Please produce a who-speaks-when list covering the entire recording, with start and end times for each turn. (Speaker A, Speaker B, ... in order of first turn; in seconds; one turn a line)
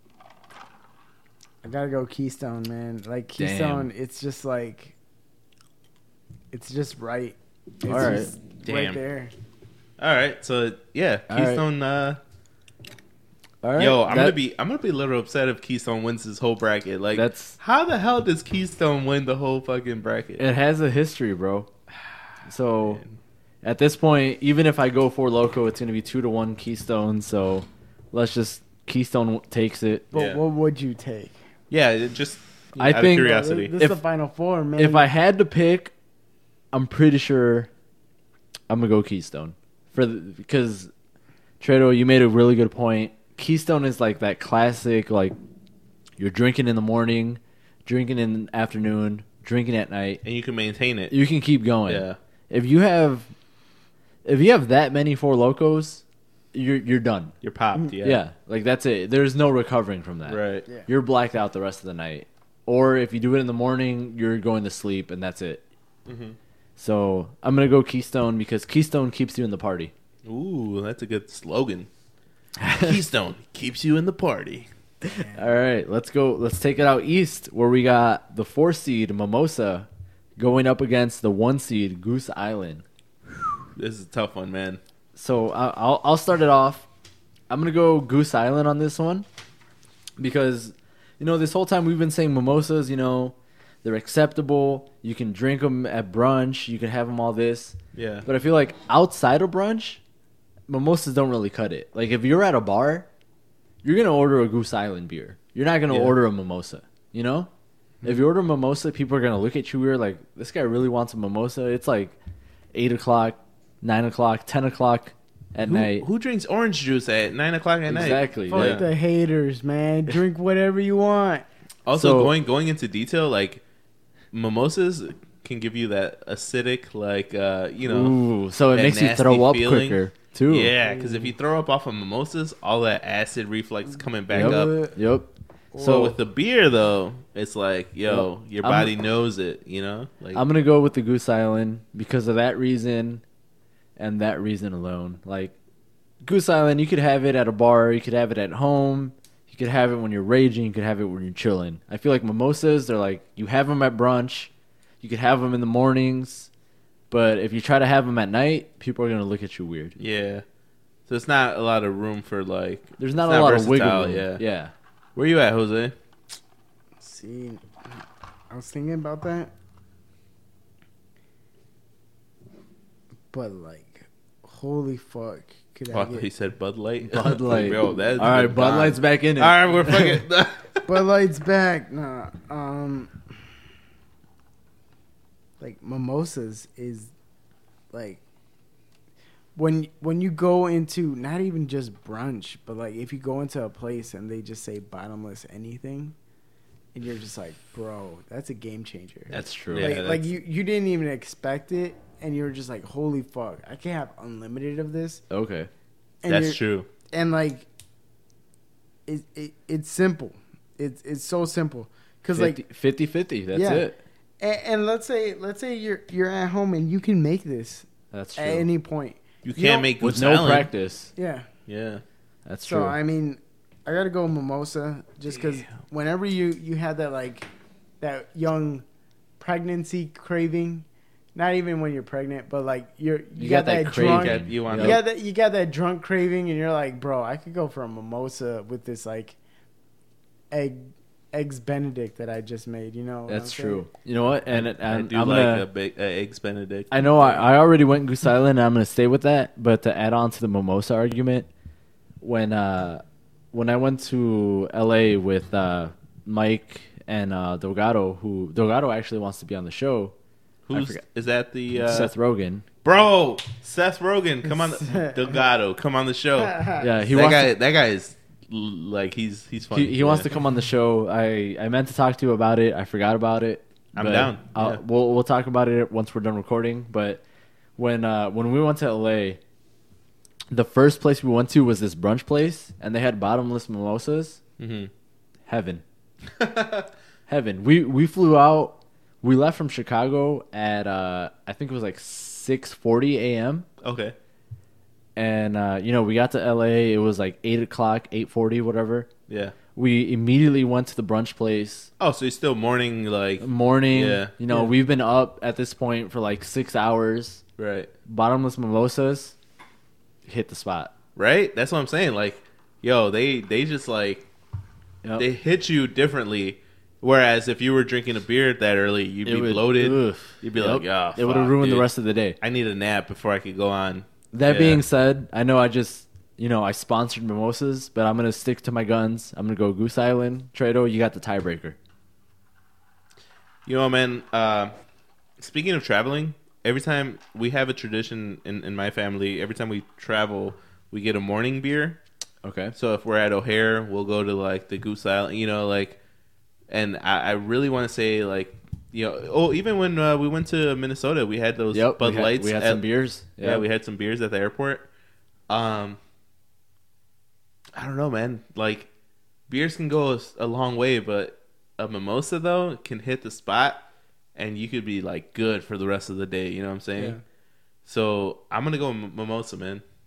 Speaker A: 1.6-4.9
Speaker B: 3.4-3.9
Speaker A: 6.5-9.3
Speaker B: 7.9-8.3
Speaker C: 8.6-9.0
Speaker C: 10.0-12.2
Speaker B: 11.3-11.6
Speaker B: 13.6-14.4
Speaker C: 13.8-20.4
Speaker B: 17.1-17.6
Speaker B: 20.4-21.7
Speaker B: 22.5-23.0
Speaker C: 22.8-23.2
Speaker B: 23.6-30.1
Speaker A: 30.1-31.4
Speaker C: 30.1-30.4
Speaker C: 31.7-33.7
Speaker B: 32.8-34.0
Speaker A: 33.2-35.1
Speaker B: 34.8-35.9
Speaker B: 36.7-37.7
Speaker B: 38.7-40.9
Speaker B: 41.6-45.3
Speaker B: 46.2-50.2
Speaker C: 50.2-51.2
Speaker B: 51.1-53.3
Speaker C: 51.9-52.2
Speaker B: 54.2-57.3
Speaker C: 57.4-58.2
Speaker B: 58.0-65.6
Speaker C: 60.3-60.6
Speaker C: 66.0-66.4
Speaker B: 66.8-69.9
Speaker C: 70.2-71.9
Speaker B: 72.6-73.0
Speaker C: 72.8-74.7
Speaker A: 75.0-75.6
Speaker B: 75.0-82.8
Speaker C: 83.8-84.8
Speaker B: 85.1-86.9
Speaker B: 87.5-89.2
Speaker B: 90.2-100.0
Speaker C: 97.9-98.2
Speaker B: 100.7-103.1
Speaker B: 103.8-107.5
Speaker C: 105.9-106.2
Speaker B: 108.0-112.2
Speaker B: 112.7-116.0
Speaker C: 115.6-118.8
Speaker B: 117.9-118.9
Speaker A: 118.5-121.5
Speaker C: 121.8-123.6
Speaker B: 121.9-122.3
Speaker C: 124.3-128.2
Speaker B: 127.8-130.7
Speaker C: 128.7-134.8
Speaker A: 130.8-131.3
Speaker A: 134.3-135.0
Speaker B: 134.3-136.2
Speaker C: 135.8-140.4
Speaker B: 138.1-138.9
Speaker B: 140.3-143.2
Speaker B: 144.0-145.5
Speaker B: 146.2-156.5
Speaker B: 157.1-159.9
Speaker C: 160.0-160.4
Speaker C: 161.1-164.4
Speaker B: 163.0-164.7
Speaker C: 165.2-165.9
Speaker A: 167.0-169.5
Speaker A: 173.3-176.3
Speaker C: 175.9-180.9
Speaker B: 177.0-180.2
Speaker A: 180.9-183.2
Speaker A: 185.6-187.1
Speaker A: 187.9-188.2
Speaker A: 189.6-196.1
Speaker A: 196.9-205.2
Speaker B: 199.3-200.0
Speaker C: 199.7-200.3
Speaker B: 205.3-205.7
Speaker A: 206.2-207.7
Speaker C: 206.3-206.9
Speaker A: 209.1-212.6
Speaker B: 212.3-214.0
Speaker A: 213.5-213.9
Speaker A: 214.4-219.9
Speaker B: 218.1-218.7
Speaker C: 219.4-220.7
Speaker B: 220.0-221.1
Speaker A: 221.2-221.5
Speaker C: 221.7-222.0
Speaker B: 222.4-223.0
Speaker A: 222.6-227.5
Speaker C: 225.3-225.7
Speaker A: 228.0-228.8
Speaker A: 229.4-239.4
Speaker B: 233.3-235.0
Speaker C: 234.0-235.0
Speaker A: 240.5-243.8
Speaker B: 243.3-245.7
Speaker C: 244.5-247.5
Speaker B: 246.9-251.5
Speaker B: 252.2-260.1
Speaker C: 260.6-262.1
Speaker B: 260.7-261.0
Speaker B: 261.7-262.6
Speaker C: 262.8-266.6
Speaker A: 264.5-265.4
Speaker A: 266.4-266.9
Speaker B: 266.8-267.5
Speaker C: 267.1-270.3
Speaker B: 269.7-277.2
Speaker C: 273.9-274.8
Speaker B: 277.8-279.4
Speaker B: 280.5-284.4
Speaker C: 284.6-284.9
Speaker B: 285.4-285.8
Speaker C: 286.4-286.9
Speaker B: 287.3-293.7
Speaker C: 293.8-294.1
Speaker B: 295.1-299.1
Speaker C: 299.3-299.6
Speaker B: 299.7-301.9
Speaker C: 302.0-304.3
Speaker B: 303.4-307.4
Speaker C: 307.6-307.9
Speaker B: 308.1-309.3
Speaker B: 310.2-310.9
Speaker C: 311.1-314.2
Speaker C: 315.2-321.9
Speaker B: 319.2-322.4
Speaker C: 322.4-324.8
Speaker B: 324.3-331.8
Speaker C: 333.6-334.7
Speaker C: 335.4-342.0
Speaker B: 342.4-342.7
Speaker C: 342.7-346.0
Speaker C: 346.7-352.8
Speaker B: 351.7-353.6
Speaker C: 353.4-354.9
Speaker C: 355.5-356.0
Speaker C: 357.8-358.9
Speaker C: 359.5-363.8
Speaker C: 364.4-367.2
Speaker C: 367.8-369.8